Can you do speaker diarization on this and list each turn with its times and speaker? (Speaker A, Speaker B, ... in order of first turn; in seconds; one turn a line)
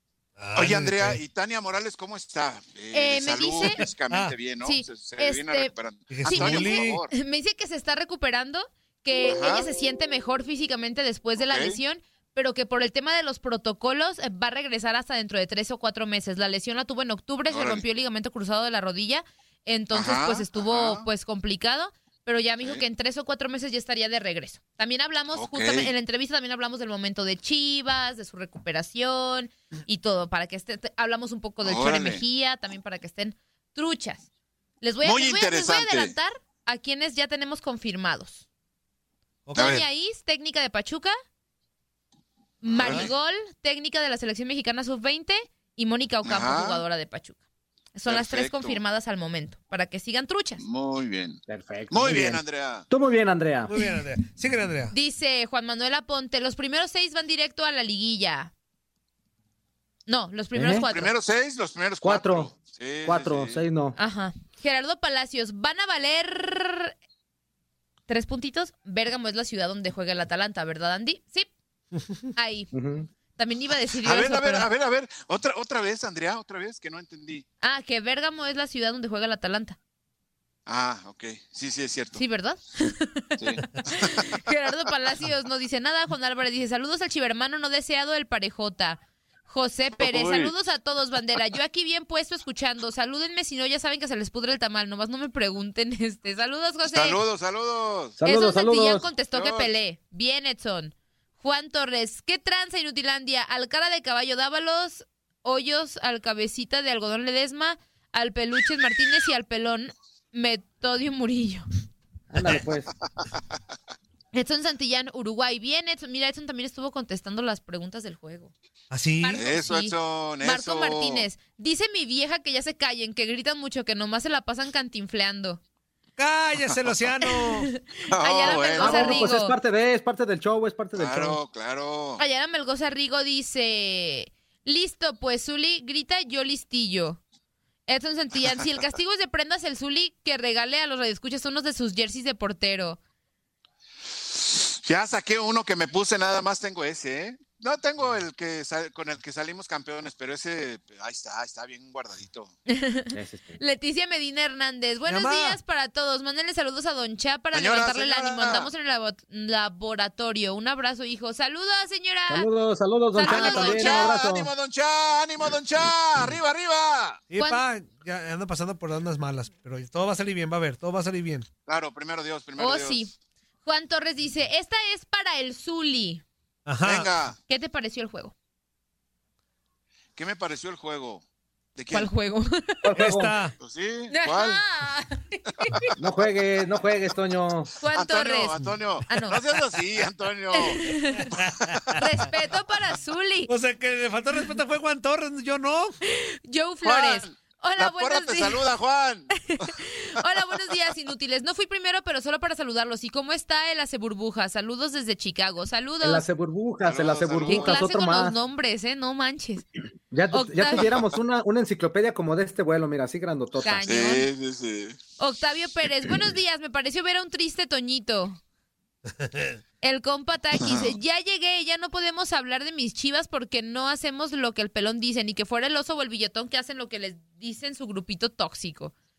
Speaker A: 0.4-1.2
Speaker B: 0.6-7.1
Speaker C: 2.9-3.8
Speaker A: 4.1-4.3
Speaker C: 4.6-5.7
Speaker A: 6.1-7.0
Speaker C: 6.2-34.2
Speaker B: 9.2-9.7
Speaker B: 11.4-11.8
Speaker B: 17.5-17.8
Speaker B: 19.9-21.1
Speaker B: 25.3-25.9
Speaker B: 31.6-32.2
Speaker C: 34.8-38.4
Speaker B: 35.0-36.1
Speaker A: 39.5-39.8
Speaker B: 39.5-39.8
Speaker C: 39.5-41.1
Speaker C: 42.6-47.4
Speaker B: 42.7-43.1
Speaker A: 42.8-43.0
Speaker B: 46.2-46.8
Speaker C: 47.9-50.6
Speaker B: 48.0-48.8
Speaker B: 50.6-52.9
Speaker D: 51.5-53.7
Speaker A: 53.7-54.9
Speaker C: 54.9-58.5
Speaker C: 60.1-61.1
Speaker D: 60.5-60.9
Speaker B: 60.7-63.6
Speaker D: 62.0-62.5
Speaker D: 63.0-64.0
Speaker C: 64.0-66.9
Speaker C: 68.1-71.5
Speaker C: 72.3-72.7
Speaker D: 72.7-73.1
Speaker C: 73.3-74.7
Speaker B: 74.0-77.4
Speaker C: 77.6-79.8
Speaker B: 80.7-82.2
Speaker C: 82.2-97.2
Speaker B: 83.4-84.4
Speaker B: 90.0-90.5
Speaker B: 96.8-98.2
Speaker D: 98.2-99.1
Speaker C: 98.2-111.7
Speaker B: 99.3-99.7
Speaker D: 112.3-112.9
Speaker C: 114.3-118.5
Speaker A: 118.9-119.5
Speaker C: 119.2-125.6
Speaker B: 119.3-121.2
Speaker A: 126.2-127.7
Speaker C: 127.3-129.5
Speaker B: 128.1-129.2
Speaker D: 128.8-131.4
Speaker B: 130.9-132.2
Speaker C: 132.2-137.2
Speaker C: 137.9-143.0
Speaker B: 144.3-152.5
Speaker C: 152.7-162.5
Speaker D: 153.1-153.5
Speaker A: 155.1-155.6
Speaker B: 157.5-158.7
Speaker D: 162.3-164.5
Speaker C: 163.2-164.2
Speaker B: 163.2-167.2
Speaker A: 167.3-171.5
Speaker C: 167.3-167.6
Speaker B: 171.7-173.1
Speaker C: 172.6-173.1
Speaker C: 173.6-176.2
Speaker A: 176.7-177.1
Speaker B: 176.8-177.3
Speaker C: 177.5-178.3
Speaker B: 180.2-181.2
Speaker B: 181.7-182.1
Speaker C: 181.9-182.9
Speaker D: 182.8-183.3
Speaker A: 182.9-183.5
Speaker B: 183.6-184.6
Speaker C: 184.1-185.9
Speaker D: 186.0-187.7
Speaker C: 187.8-188.6
Speaker B: 187.9-190.8
Speaker C: 189.1-189.4
Speaker C: 190.5-191.3
Speaker A: 191.2-192.0
Speaker C: 192.0-193.5
Speaker A: 193.5-195.9
Speaker C: 196.1-198.7
Speaker B: 196.8-199.7
Speaker C: 199.4-206.2
Speaker D: 206.0-208.3
Speaker B: 206.8-207.8
Speaker C: 207.5-209.6
Speaker D: 210.1-213.8
Speaker C: 210.3-210.9
Speaker C: 213.6-214.3
Speaker B: 213.8-215.0
Speaker C: 215.2-218.4
Speaker A: 219.2-219.6
Speaker C: 219.8-228.9
Speaker B: 220.6-220.9